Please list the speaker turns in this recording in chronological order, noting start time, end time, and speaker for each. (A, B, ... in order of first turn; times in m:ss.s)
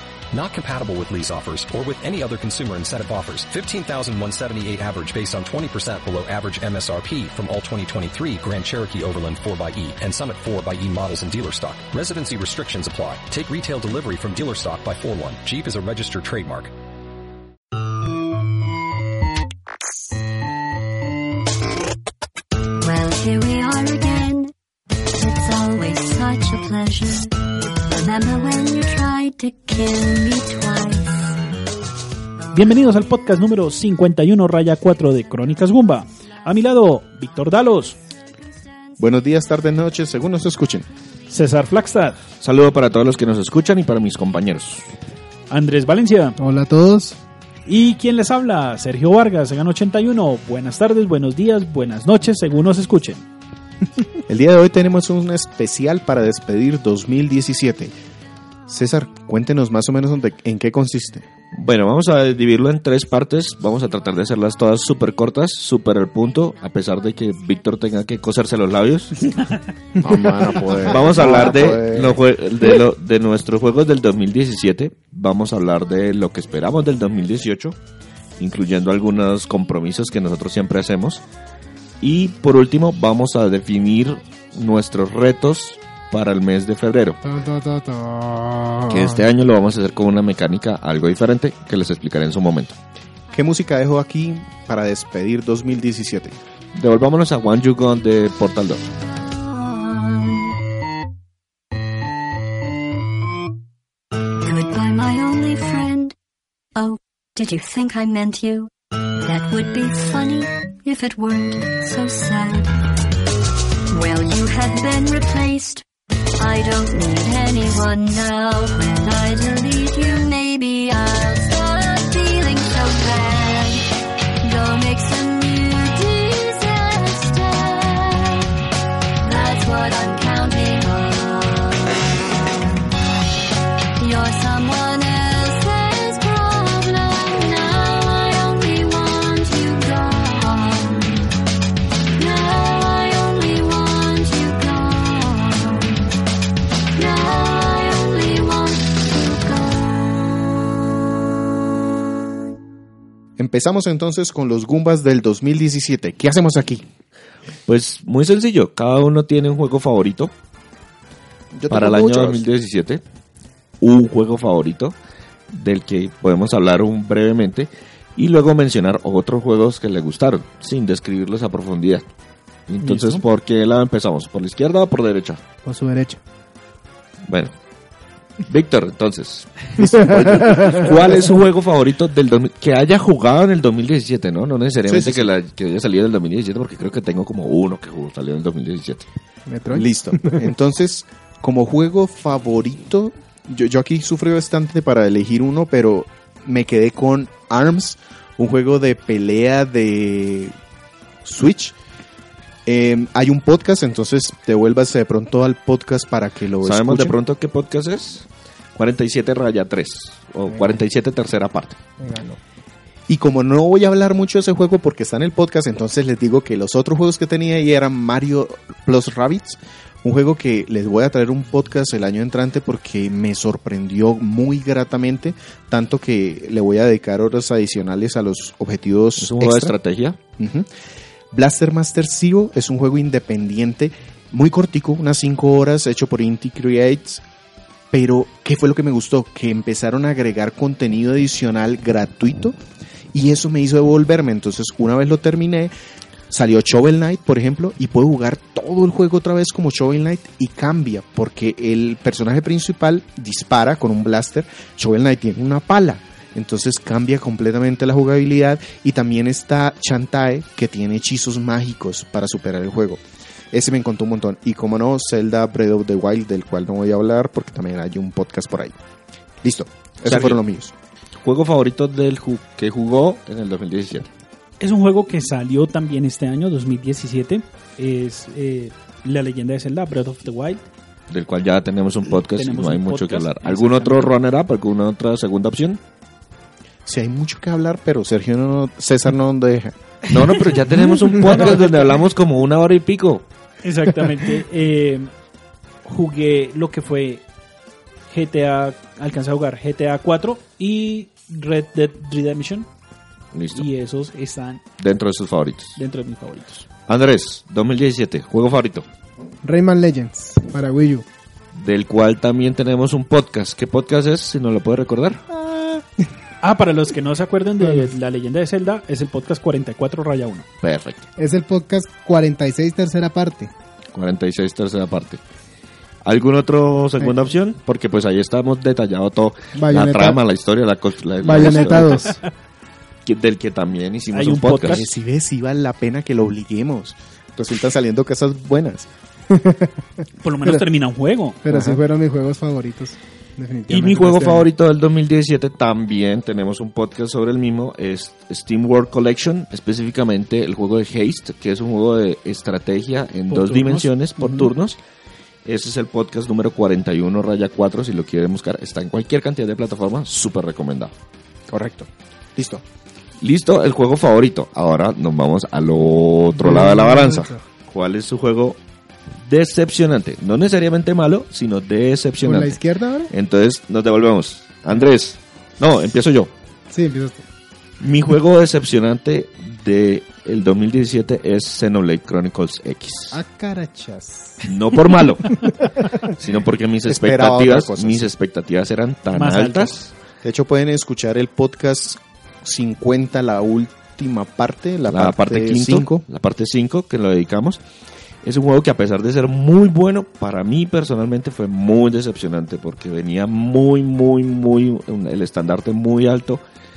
0:00.3-0:16.7 A
0:22.8-0:24.5 B
0:25.0-0:31.4 B
0:32.5-0:38.0 C
0:39.0-0:40.9 D
0:41.3-0:42.2 C
0:42.4-0:44.9 E
0:45.5-0:46.4 C
0:46.4-0:47.2 F
0:47.6-0:53.2 C
0:54.3-0:57.9 D
0:58.7-1:01.2 D
1:01.5-1:09.3 E
1:09.3-1:09.6 C
1:10.0-1:12.2 D
1:10.8-1:17.8 E
1:18.4-1:21.2 E
1:22.0-1:27.2 E
1:27.2-1:29.2 F
1:28.9-1:32.8 E
1:33.3-1:36.4 D
1:36.7-1:38.9 E
1:39.6-1:40.4 B
1:44.4-1:46.1 B
1:46.7-1:52.7 B
1:53.9-1:55.8 B
1:56.4-2:03.8 B
2:04.4-2:08.5 B
2:09.2-2:12.8 B
2:14.0-2:21.3 B
2:22.2-2:26.0 B
2:26.9-2:30.0 B
2:33.4-2:36.8 D
2:37.7-2:40.3 E
2:41.5-2:42.4 D
2:41.7-2:43.0 E
2:43.8-2:45.0 E
2:45.5-2:52.0 E
2:52.7-2:55.4 E
2:52.9-2:53.2 C
2:55.6-2:56.2 F
2:57.2-2:57.5 E
2:58.4-3:09.0 E
3:00.1-3:00.7 D
3:00.3-3:00.9 F
3:04.9-3:05.2 D
3:09.5-3:10.4 F
3:09.7-3:20.5 D
3:21.2-3:21.7 D
3:22.6-3:27.2 D
3:26.6-3:31.8 E
3:32.0-3:32.4 F
3:33.1-3:49.8 D
3:49.2-3:50.2 E
3:50.4-3:50.7 D
3:51.3-3:57.2 D
3:57.9-4:02.6 D
4:03.1-4:05.7 D
4:06.3-4:23.0 D
4:23.5-4:28.8 D
4:29.4-4:30.7 D
4:30.0-4:30.4 E
4:31.2-4:34.1 E
4:34.6-4:40.6 C
4:41.1-4:45.8 E
4:42.3-4:44.1 C
4:46.8-4:49.8 D
4:50.1-4:53.2 E
4:51.2-4:51.8 C
4:53.6-4:55.1 C
4:55.8-4:57.2 C
4:58.1-5:02.7 C
5:03.3-5:03.7 E
5:03.5-5:04.6 C
5:04.8-5:05.8 E
5:05.8-5:06.6 C
5:06.9-5:08.9 E
5:09.4-5:11.0 F
5:11.5-5:15.2 E
5:16.4-5:20.4 C
5:17.6-5:17.9 F
5:20.6-5:21.0 E
5:21.2-5:23.5 F
5:23.9-5:25.2 E
5:26.0-5:32.0 E
5:29.5-5:30.2 F
5:31.2-5:32.2 F
5:31.8-5:32.2 C
5:33.0-5:35.0 E
5:34.1-5:34.9 C
5:34.6-5:38.9 D
5:39.3-5:39.7 F
5:40.2-5:41.4 C
5:41.4-5:44.5 F
5:41.5-5:41.8 D
5:43.7-5:54.8 E
5:53.3-5:54.5 C
5:55.4-6:00.9 E
6:01.5-6:02.6 D
6:03.2-6:08.6 E
6:06.4-6:07.4 F
6:09.2-6:12.6 E
6:12.2-6:13.1 F
6:13.1-6:16.3 E
6:16.7-6:17.2 F
6:17.8-6:23.2 E
6:23.1-6:24.5 F
6:24.4-6:29.9 E
6:25.3-6:25.9 F
6:26.8-6:28.1 D
6:29.1-6:29.8 C
6:30.2-6:36.0 D
6:34.9-6:37.6 E
6:38.2-6:46.4 E